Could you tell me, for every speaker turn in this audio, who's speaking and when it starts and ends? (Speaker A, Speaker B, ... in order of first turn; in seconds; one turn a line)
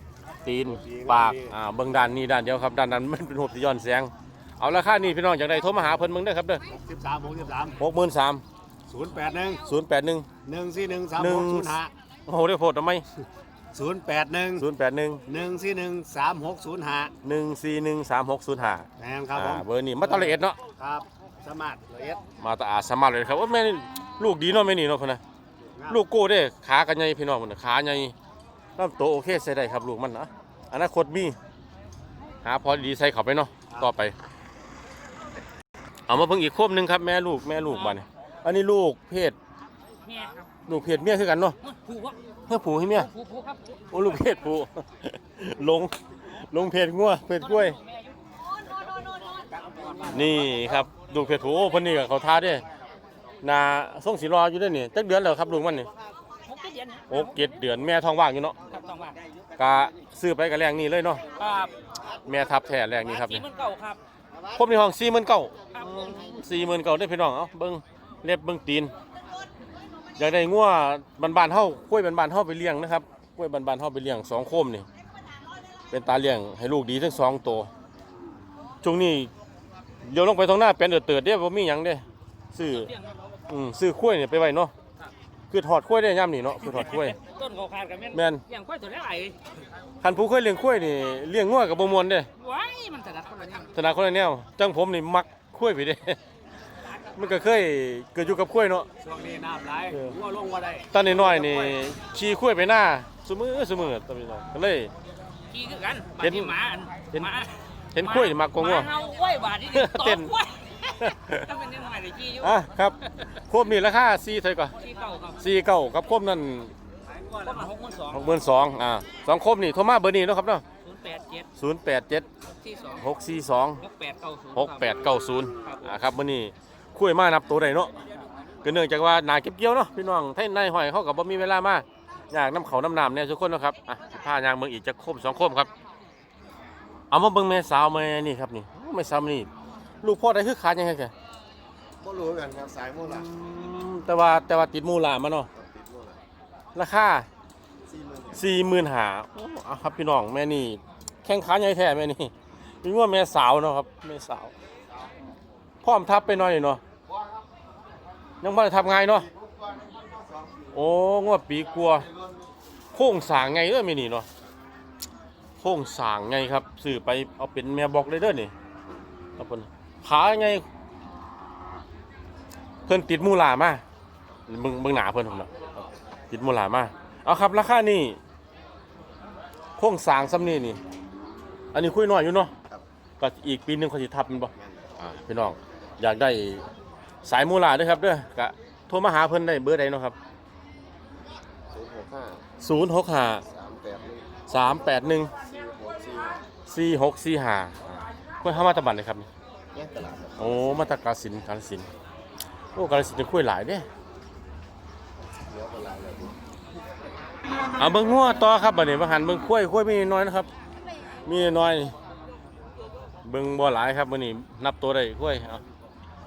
Speaker A: 0.4-6.6
Speaker B: 0.7-1.5
Speaker B: 6.7-7.8
Speaker A: 7.8-8.4
Speaker B: 8.9-9.6
Speaker A: 9.7-10.3
Speaker B: 10.4-11.9
Speaker A: 11.2-13.0
Speaker B: 13.7-14.6
Speaker A: 14.6-15.2
Speaker B: 15.2-17.1
Speaker A: 17.2-20.6
Speaker B: 19.0-22.2
Speaker A: 22.4-25.2
Speaker B: 25.6-26.0
Speaker A: 25.9-28.1
Speaker A: 28.8-31.4
Speaker A: 32.4-34.1
Speaker A: 36.1-39.4
Speaker C: 40.0-40.5
Speaker A: 40.7-41.5
Speaker C: 41.6-42.2
Speaker A: 42.5-43.1
Speaker C: 42.9-44.1
Speaker A: 43.9-47.8
Speaker C: 47.4-48.1
Speaker C: 49.2-50.7
Speaker A: 50.1-52.6
Speaker A: 53.4-55.9
Speaker C: 56.4-57.5
Speaker A: 57.1-58.6
Speaker C: 58.7-59.2
Speaker A: 59.6-61.2
Speaker C: 61.4-61.7
Speaker A: 62.2-63.5
Speaker C: 63.0-64.0
Speaker A: 64.5-68.9
Speaker C: 65.7-66.4
Speaker A: 70.2-74.8
Speaker A: 75.9-77.7
Speaker A: 78.8-79.3
Speaker A: 80.0-82.9
Speaker C: 82.7-83.1
Speaker A: 83.5-84.7
Speaker A: 85.5-87.2
Speaker C: 86.6-89.3
Speaker A: 88.1-88.4
Speaker A: 90.0-92.3
Speaker C: 92.4-93.7
Speaker A: 93.7-96.2
Speaker A: 97.1-98.9
Speaker B: 99.0-101.8
Speaker A: 100.9-104.9
Speaker C: 105.5-112.5
Speaker A: 106.2-106.5
Speaker A: 107.9-108.9
Speaker A: 109.7-110.3
Speaker A: 111.0-111.5
Speaker A: 112.4-114.7
Speaker C: 114.8-115.4
Speaker A: 115.4-116.7
Speaker B: 117.2-117.6
Speaker C: 117.4-118.3
Speaker A: 118.1-120.6
Speaker C: 120.8-121.5
Speaker A: 121.6-122.2
Speaker C: 122.5-123.0
Speaker A: 123.0-123.8
Speaker C: 123.8-124.9
Speaker A: 124.5-127.9
Speaker C: 125.6-125.9
Speaker A: 128.6-135.7
Speaker A: 137.1-139.5
Speaker A: 140.0-141.1
Speaker D: 142.0-143.3
Speaker A: 143.0-145.5
Speaker D: 145.5-146.2
Speaker A: 146.7-147.3
Speaker D: 147.9-148.4
Speaker A: 148.3-154.5
Speaker A: 155.8-156.8
Speaker A: 158.4-159.3
Speaker B: 159.2-160.8
Speaker A: 160.7-162.1
Speaker B: 162.0-162.4
Speaker A: 162.9-164.3
Speaker A: 165.6-168.5
Speaker A: 169.4-170.6
Speaker A: 172.9-173.8
Speaker A: 174.5-175.7
Speaker A: 176.3-178.2
Speaker A: 179.8-180.8
Speaker A: 181.7-182.5
Speaker A: 183.2-186.6
Speaker D: 184.6-184.9
Speaker A: 187.2-190.2
Speaker D: 191.7-192.4
Speaker A: 192.6-193.4
Speaker D: 193.4-196.5
Speaker A: 194.5-195.3
Speaker A: 196.7-199.3
Speaker D: 199.7-200.8
Speaker A: 200.4-201.9
Speaker A: 202.7-203.8
Speaker D: 205.5-206.3
Speaker A: 207.8-210.5
Speaker A: 211.2-211.9
Speaker A: 213.2-215.6